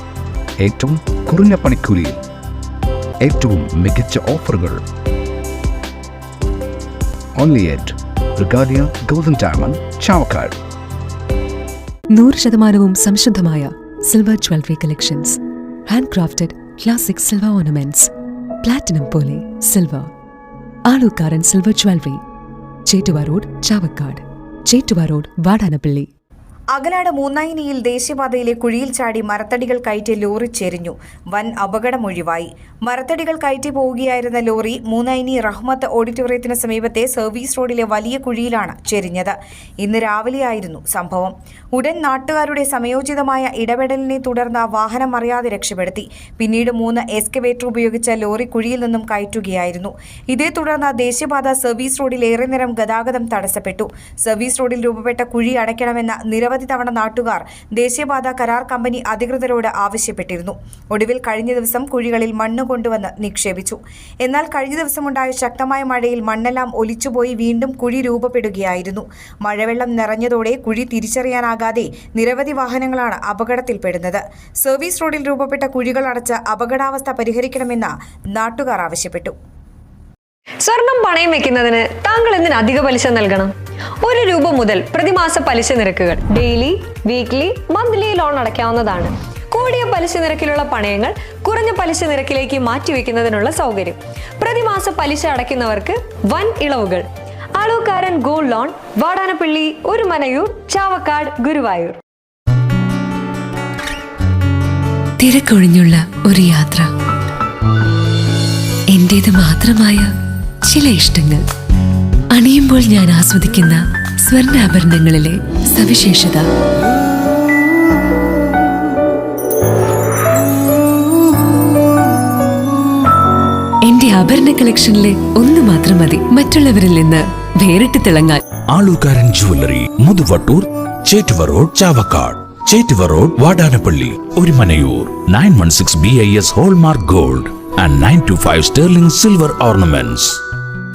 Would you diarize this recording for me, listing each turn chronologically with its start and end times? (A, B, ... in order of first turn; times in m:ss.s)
0:00.6-0:02.2 A
0:03.2-0:04.8 A
0:07.4-0:10.6 A
0:12.1-0:18.1 B
0:18.6-0:20.1 B
0:20.9-0:22.2 B
0:22.9-0:26.1 B
0:26.7-1:19.4 C
1:20.6-1:37.0 D
1:37.6-1:42.0 D
1:45.2-1:46.9 B
1:48.9-1:51.5 B
1:52.3-1:56.5 B
2:03.8-2:08.4 B
2:08.7-2:20.4 E